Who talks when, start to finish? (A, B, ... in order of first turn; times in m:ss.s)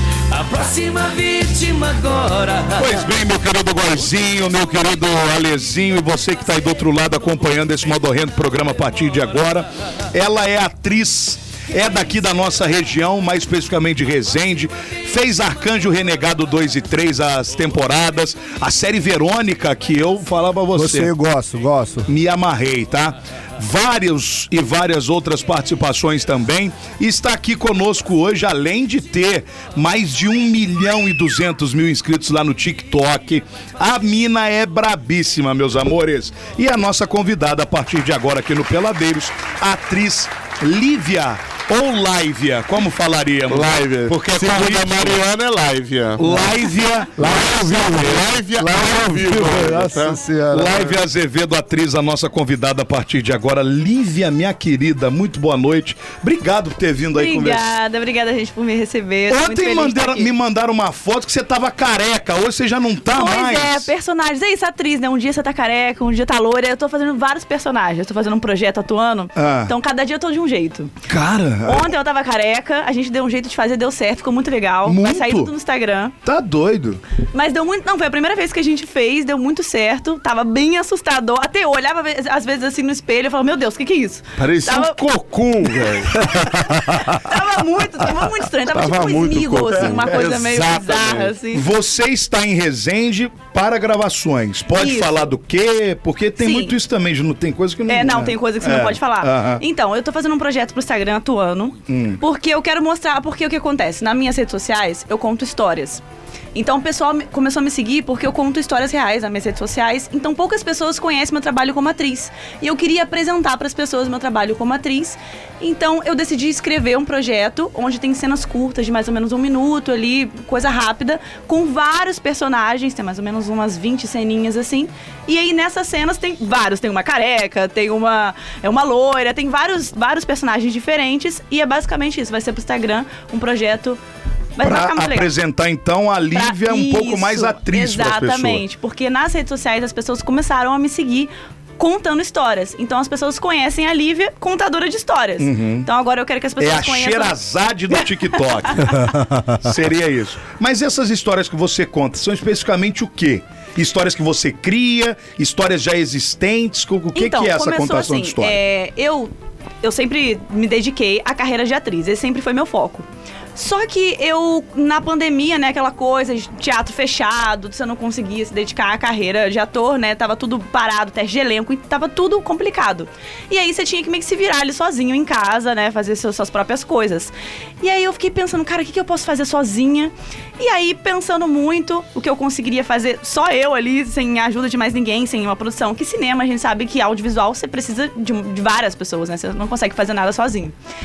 0:00.3-0:03.1 A
0:02.8-0:21.1 B
0:20.7-0:22.1 C
0:22.1-0:45.2 B
0:43.5-0:46.4 D
0:46.2-0:47.8 B
0:47.2-0:51.0 C
0:47.3-0:50.2 D
0:50.5-0:57.6 B
0:57.1-1:00.3 E
0:59.3-1:03.9 B
1:03.1-1:10.9 E
1:09.4-1:09.7 B
1:11.1-1:11.9 B
1:11.6-1:16.2 E
1:14.8-1:15.5 B
1:16.2-1:17.0 B
1:17.3-1:25.0 E
1:24.4-1:26.2 D
1:26.4-1:27.1 C
1:26.9-1:31.7 E
1:28.7-1:31.3 D
1:29.8-1:30.3 B
1:31.5-1:39.6 B
1:34.7-1:35.3 E
1:36.4-1:36.8 E
1:37.9-1:46.0 E
1:41.9-1:42.2 B
1:46.6-2:14.0 E
2:14.6-2:15.3 E
2:14.6-2:18.6 B
2:16.3-2:27.4 E
2:25.4-2:25.9 B
2:26.6-2:38.6 B
2:37.1-2:39.3 E
2:39.8-3:10.8 E